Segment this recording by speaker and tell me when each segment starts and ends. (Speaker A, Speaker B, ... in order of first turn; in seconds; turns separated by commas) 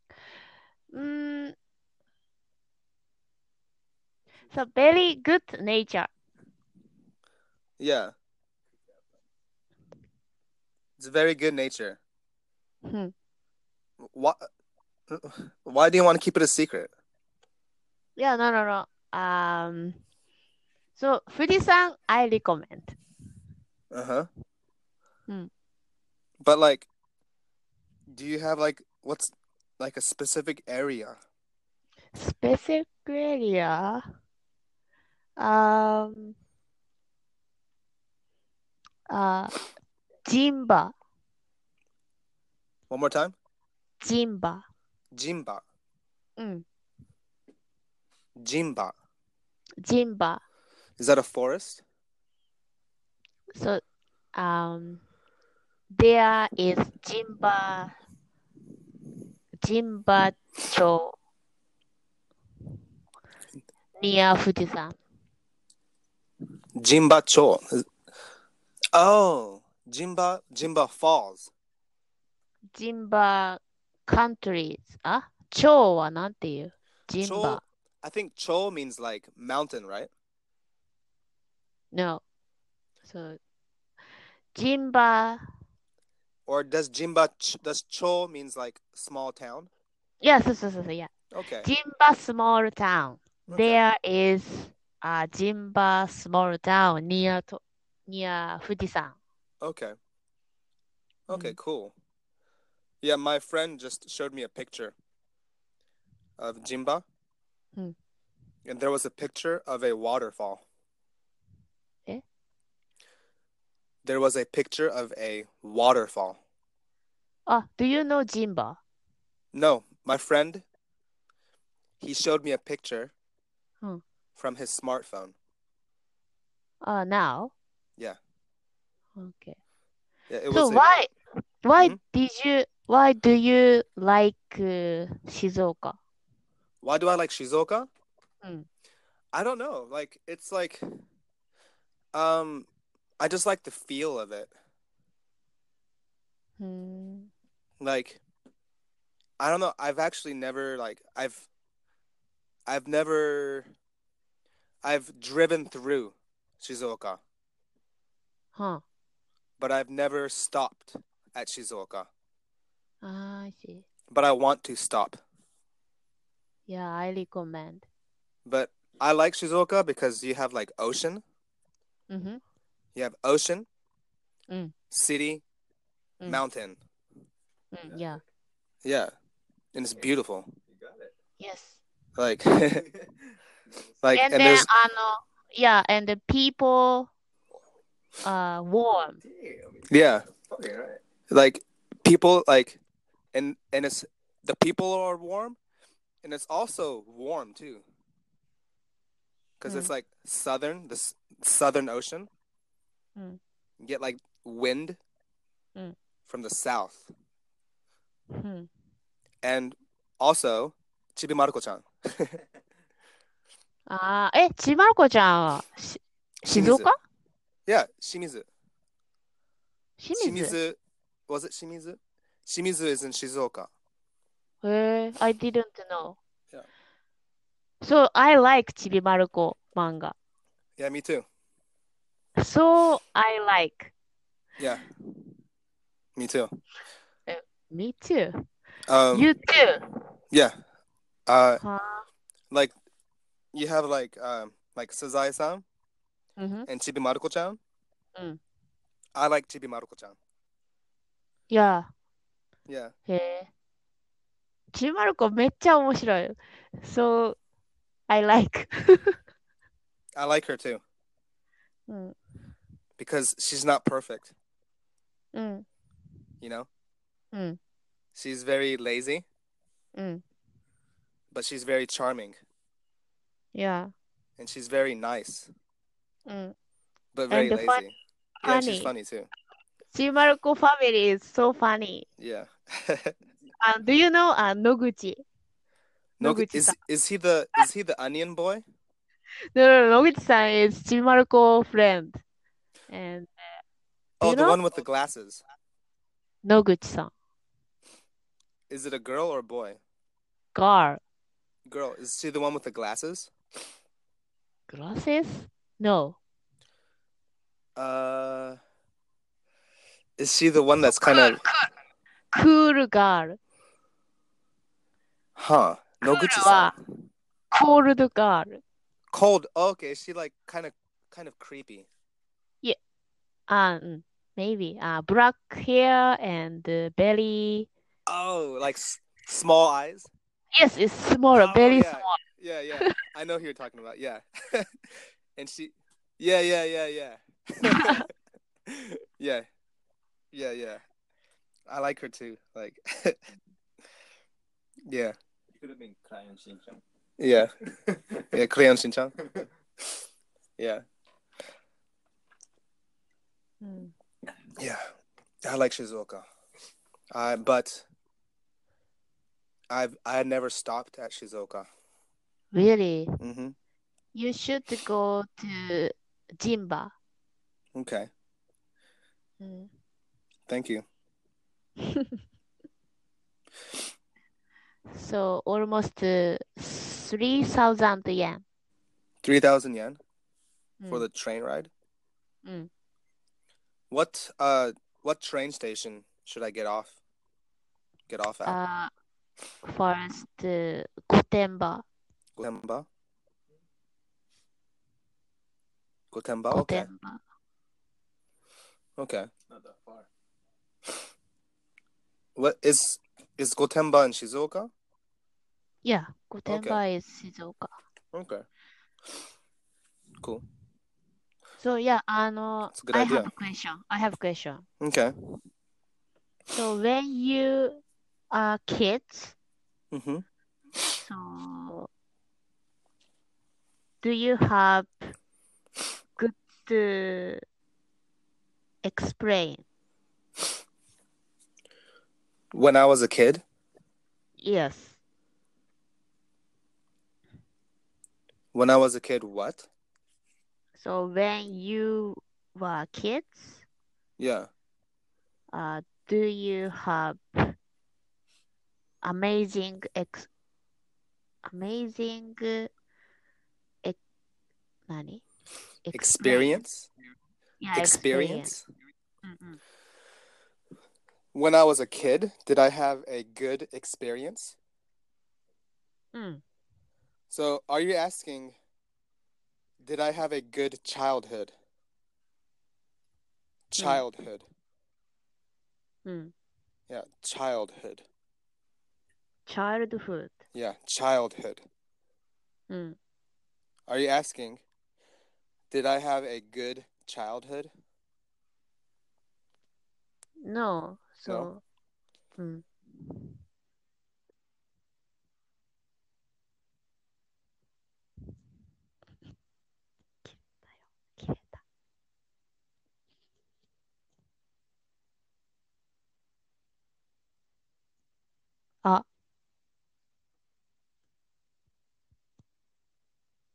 Speaker A: 0.9-1.5, Speaker A: 4.5-6.1, Speaker B: 7.8-8.1, Speaker B: 11.0-12.0, Speaker A: 12.8-13.1, Speaker B: 14.0-14.5, Speaker B: 15.1-16.9, Speaker A: 18.2-20.0, Speaker A: 20.9-23.0, Speaker B: 23.9-24.3, Speaker B: 26.4-26.9, Speaker B: 28.1-31.2, Speaker A: 32.1-34.0, Speaker A: 35.4-36.4, Speaker A: 39.1-39.5, Speaker A: 40.2-40.9, Speaker B: 42.9-43.3, Speaker A: 44.0-44.6, Speaker B: 45.1-45.6, Speaker A: 46.4-46.6, Speaker B: 48.4-48.9, Speaker A: 49.8-50.4, Speaker B: 51.0-51.8, Speaker A: 53.5-53.8, Speaker A: 54.3-55.0, Speaker A: 55.9-57.9, Speaker A: 59.6-61.1, Speaker A: 64.0-65.0, Speaker B: 66.8-67.8, Speaker B: 68.9-71.5, Speaker A: 72.7-77.6, Speaker B: 77.2-80.1, Speaker A: 81.9-82.2, Speaker A: 83.0-83.4, Speaker A: 84.5-85.4, Speaker B: 86.5-89.7, Speaker A: 90.2-91.1, Speaker B: 91.3-91.7, Speaker A: 91.6-99.2, Speaker B: 93.5-93.8, Speaker B: 99.6-100.0, Speaker B: 101.3-101.9, Speaker B: 103.0-104.9, Speaker B: 106.4-107.0, Speaker B: 108.7-110.6, Speaker B: 114.0-116.4, Speaker A: 117.5-118.8, Speaker B: 119.5-120.6, Speaker B: 122.0-123.1, Speaker B: 124.3-125.3, Speaker A: 126.8-127.5, Speaker A: 129.2-129.6, Speaker B: 130.3-130.9, Speaker A: 130.5-131.1, Speaker A: 131.6-136.0, Speaker B: 136.8-137.9, Speaker B: 139.3-140.8, Speaker B: 142.1-142.7, Speaker B: 143.2-144.5, Speaker A: 146.6-147.3, Speaker B: 147.8-148.2, Speaker B: 149.4-151.5, Speaker B: 152.7-153.7, Speaker B: 154.8-157.2, Speaker A: 158.6-158.8, Speaker B: 159.6-162.1, Speaker A: 163.0-163.8, Speaker B: 164.1-165.2, Speaker A: 166.7-167.8, Speaker B: 168.4-171.2, Speaker A: 172.1-172.4, Speaker B: 172.9-173.7, Speaker B: 174.9-175.4, Speaker B: 176.2-176.8, Speaker A: 177.7-178.2, Speaker C: 177.9-178.2, Speaker B: 178.8-179.1, Speaker B: 179.7-180.5, Speaker C: 180.7-181.1, Speaker A: 181.4-181.8, Speaker B: 182.2-182.8, Speaker C: 182.8-183.9, Speaker B: 184.0-184.7, Speaker A: 184.1-187.1, Speaker A: 188.2-189.2, Speaker C: 189.2-191.0, Speaker B: 189.9-190.3, Speaker B: 191.3-192.8, Speaker B: 193.3-195.6, Speaker B: 196.2-197.8, Speaker B: 199.6-202.3, Speaker A: 199.7-199.9, Speaker B: 203.8-205.0, Speaker B: 206.3-207.1, Speaker A: 208.3-208.7, Speaker B: 209.4-212.4, Speaker A: 213.9-216.9, Speaker B: 216.5-216.9, Speaker B: 217.7-218.5, Speaker A: 220.0-220.6, Speaker B: 220.2-223.7, Speaker A: 224.6-226.2, Speaker A: 227.8-230.1, Speaker B: 230.8-231.2, Speaker A: 232.4-233.9, Speaker B: 234.6-234.9, Speaker B: 236.2-236.5, Speaker A: 237.3-238.4, Speaker B: 238.9-239.3, Speaker A: 239.1-239.8, Speaker B: 241.3-241.6, Speaker A: 241.6-242.1, Speaker B: 243.5-245.6, Speaker A: 246.4-246.7, Speaker B: 246.7-247.6, Speaker B: 249.2-250.2, Speaker A: 251.5-251.9, Speaker B: 252.7-252.9, Speaker A: 253.1-253.5, Speaker A: 254.7-257.4, Speaker A: 258.1-259.2, Speaker B: 260.1-260.8, Speaker A: 261.9-262.1, Speaker B: 263.0-264.3, Speaker A: 265.3-265.6, Speaker B: 266.4-266.7, Speaker A: 267.3-267.6, Speaker B: 268.1-269.2, Speaker A: 269.9-270.2, Speaker B: 271.3-272.4, Speaker A: 273.5-273.9, Speaker B: 274.4-275.5, Speaker A: 276.3-276.5, Speaker B: 277.1-279.3, Speaker A: 277.3-277.8, Speaker A: 278.4-278.9, Speaker A: 279.9-282.1, Speaker B: 282.2-283.1, Speaker A: 283.6-285.2, Speaker B: 286.2-288.6, Speaker A: 286.2-286.8, Speaker A: 289.5-292.2, Speaker A: 292.9-293.3, Speaker B: 294.2-295.4, Speaker A: 294.2-294.6, Speaker A: 296.4-297.1, Speaker B: 298.7-299.8, Speaker A: 300.5-301.0, Speaker B: 301.6-303.3, Speaker A: 304.7-306.2, Speaker B: 307.8-308.6, Speaker B: 310.2-311.4, Speaker A: 310.9-311.7, Speaker A: 312.3-313.4, Speaker B: 315.4-316.7, Speaker A: 316.0-316.7, Speaker A: 317.5-318.6, Speaker B: 319.1-321.9, Speaker A: 323.5-327.7, Speaker B: 328.1-330.1, Speaker A: 330.5-332.2, Speaker B: 331.3-334.7, Speaker B: 335.4-338.1, Speaker A: 337.7-338.1, Speaker B: 338.7-339.4, Speaker B: 340.3-340.8, Speaker B: 341.7-343.2, Speaker B: 344.9-345.1, Speaker C: 345.5-346.8, Speaker B: 347.2-347.5, Speaker C: 347.9-348.2, Speaker B: 348.3-349.1, Speaker B: 350.6-350.8, Speaker A: 353.6-353.9, Speaker B: 354.6-354.8, Speaker B: 355.4-356.2, Speaker B: 357.1-357.8, Speaker B: 359.7-361.7, Speaker A: 362.5-363.2, Speaker B: 363.2-363.5, Speaker A: 364.1-366.9, Speaker B: 367.7-368.1, Speaker A: 369.4-369.7, Speaker B: 370.5-370.8, Speaker A: 371.8-372.1, Speaker A: 374.9-378.4, Speaker B: 379.2-380.0, Speaker B: 380.9-381.7, Speaker B: 383.9-386.9, Speaker B: 388.1-388.6, Speaker A: 388.4-388.9, Speaker A: 389.6-391.8, Speaker B: 392.4-392.9, Speaker B: 396.1-396.9, Speaker A: 396.5-397.2, Speaker B: 399.0-399.3, Speaker C: 399.5-400.1, Speaker B: 402.4-404.7, Speaker A: 405.8-407.7, Speaker B: 406.5-406.8, Speaker B: 408.1-408.4, Speaker A: 411.6-414.6, Speaker B: 412.7-413.3, Speaker B: 414.8-415.1, Speaker A: 416.5-419.3, Speaker B: 419.9-420.2, Speaker A: 421.0-421.9, Speaker A: 424.0-425.1, Speaker A: 426.2-427.4, Speaker A: 428.8-429.6, Speaker B: 432.5-433.4, Speaker A: 434.4-435.0, Speaker B: 438.5-439.7, Speaker A: 440.8-443.6, Speaker B: 444.2-444.5, Speaker A: 445.5-447.5, Speaker A: 449.0-450.3, Speaker A: 451.4-452.7, Speaker A: 454.9-455.2, Speaker A: 455.8-456.5, Speaker B: 455.9-456.9, Speaker A: 457.6-458.6, Speaker B: 457.8-458.6, Speaker A: 459.2-459.6, Speaker B: 461.3-464.6, Speaker A: 466.1-466.4, Speaker B: 467.3-468.5, Speaker B: 469.8-471.5, Speaker B: 473.7-474.4, Speaker A: 473.8-474.0, Speaker A: 476.0-476.3, Speaker B: 476.9-478.0, Speaker A: 479.5-480.4, Speaker B: 480.5-481.6, Speaker A: 482.7-482.9, Speaker B: 483.9-484.6, Speaker B: 485.7-487.7, Speaker A: 490.4-491.6, Speaker A: 492.4-492.6, Speaker A: 500.2-500.5, Speaker A: 501.1-501.6